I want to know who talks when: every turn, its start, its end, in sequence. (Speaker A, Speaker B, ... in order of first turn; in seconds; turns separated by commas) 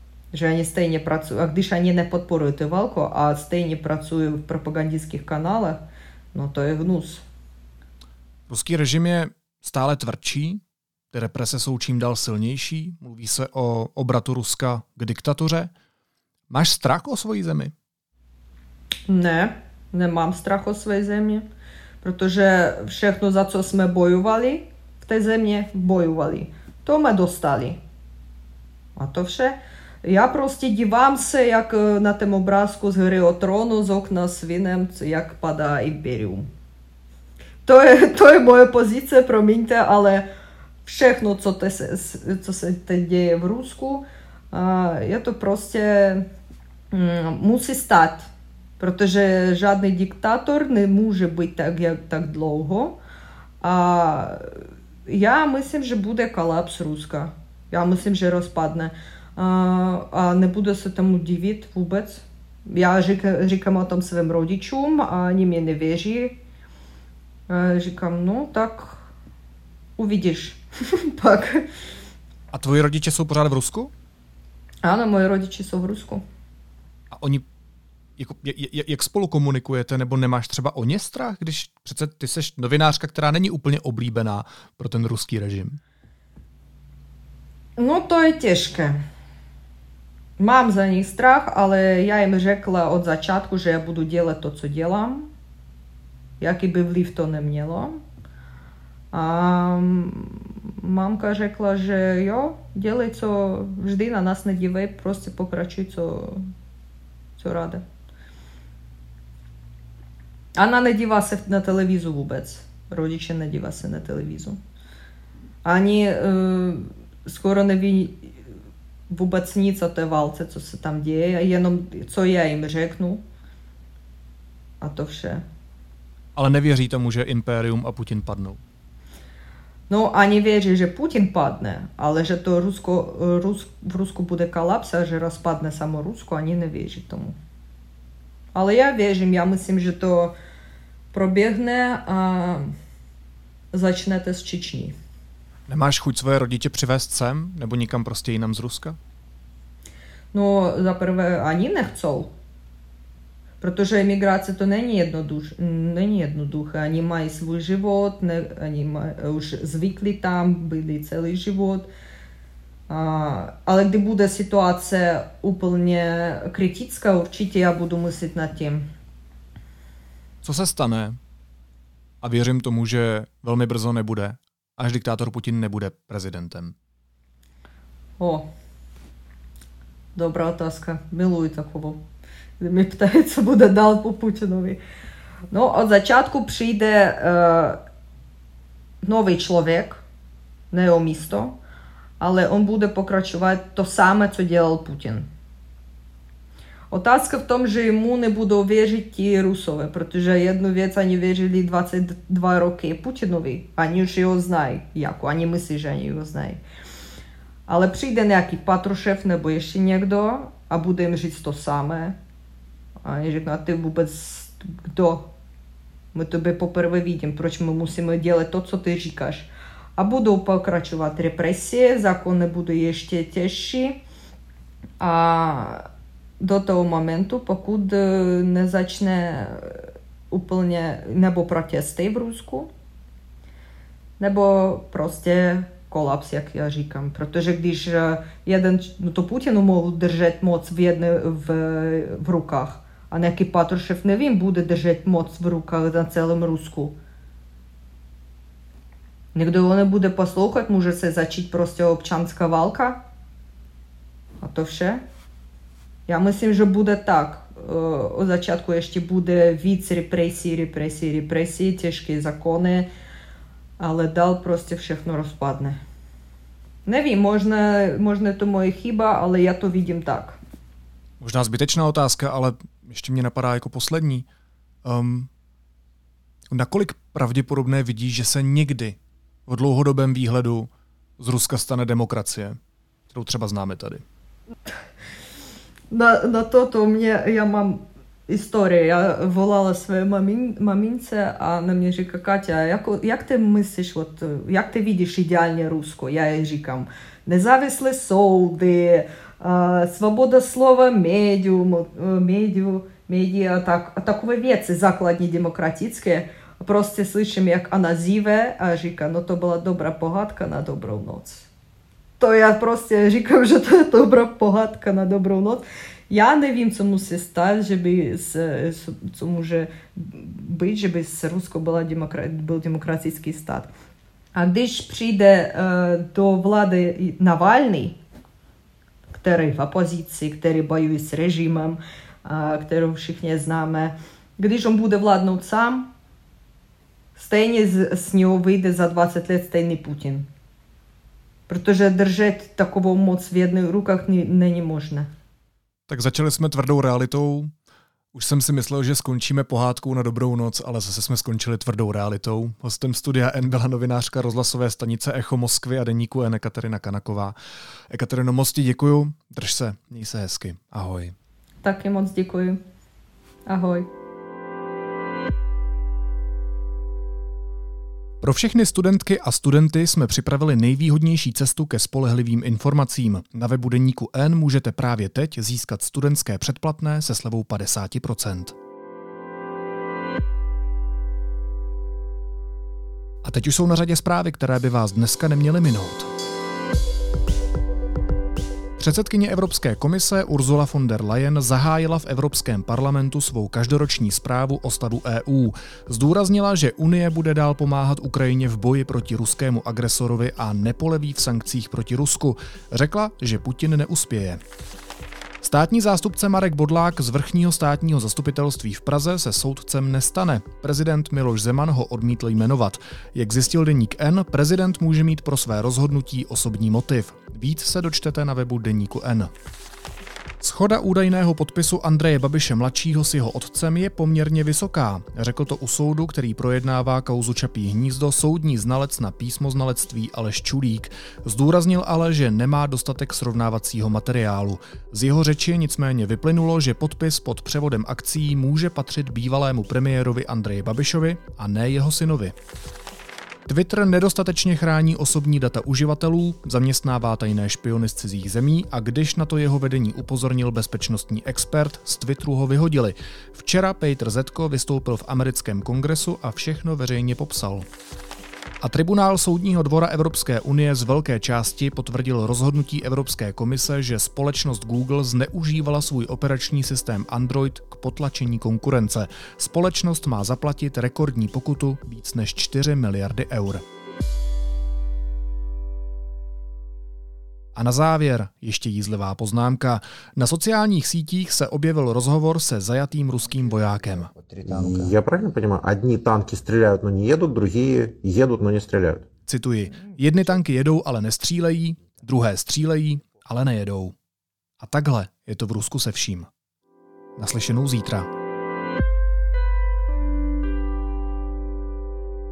Speaker A: 0.3-5.8, Speaker A: 6.3-7.2, Speaker B: 8.5-15.7, Speaker B: 16.5-17.7, Speaker A: 19.1-21.5, Speaker A: 22.0-27.8, Speaker A: 28.9-36.5, Speaker A: 37.6-40.2, Speaker A: 40.9-46.2, Speaker A: 46.9-53.0, Speaker A: 53.6-54.5, Speaker A: 55.1-66.4, Speaker A: 67.5-69.1, Speaker A: 70.0-71.6, Speaker B: 72.5-73.9, Speaker A: 74.8-76.2, Speaker B: 77.1-77.5, Speaker B: 78.2-85.8, Speaker A: 87.8-89.0, Speaker A: 90.4-95.3, Speaker A: 96.4-98.0, Speaker A: 99.1-106.4, Speaker A: 107.4-107.8, Speaker A: 110.5-114.6, Speaker A: 115.6-118.3, Speaker A: 119.1-123.2, Speaker A: 124.8-125.4, Speaker B: 126.3-128.6, Speaker A: 129.9-137.3, Speaker A: 138.5-140.3, Speaker A: 141.1-142.7, Speaker A: 143.7-144.9, Speaker B: 145.7-149.0, Speaker A: 150.3-152.3, Speaker A: 153.6-161.9, Speaker A: 162.9-168.8, Speaker B: 170.4-171.2, Speaker B: 172.2-176.7, Speaker A: 178.2-178.4, Speaker A: 180.1-182.0, Speaker A: 182.6-184.8, Speaker A: 185.5-187.8, Speaker A: 189.0-190.0, Speaker A: 190.7-191.6, Speaker A: 192.2-195.2, Speaker A: 196.9-206.6, Speaker A: 207.7-212.2, Speaker A: 213.0-215.3, Speaker A: 216.1-224.0, Speaker A: 225.0-225.8, Speaker A: 226.4-232.7, Speaker A: 234.2-246.9, Speaker A: 249.3-253.0, Speaker A: 254.4-255.0, Speaker A: 256.1-262.9, Speaker A: 263.8-265.8, Speaker A: 266.9-270.4, Speaker B: 271.2-274.2, Speaker B: 274.8-275.3, Speaker B: 276.5-282.6, Speaker B: 283.1-284.0, Speaker A: 285.9-311.5, Speaker A: 312.2-323.7, Speaker A: 324.4-327.9, Speaker A: 329.1-335.9, Speaker A: 337.1-340.3, Speaker A: 341.5-345.1, Speaker B: 345.9-347.5, Speaker B: 348.1-357.4, Speaker B: 357.9-361.1, Speaker A: 361.6-362.6, Speaker A: 363.5-363.9, Speaker B: 368.2-378.6, Speaker B: 383.2-386.1, Speaker B: 388.8-404.4, Speaker B: 405.4-419.3, Speaker B: 420.4-442.3, Speaker B: 443.5-457.7, Speaker B: 458.6-473.6, Speaker B: 477.6-484.1, Speaker C: 484.4-489.1, Speaker B: 489.3-493.9, Speaker B: 494.6-496.3, Speaker B: 497.2-498.1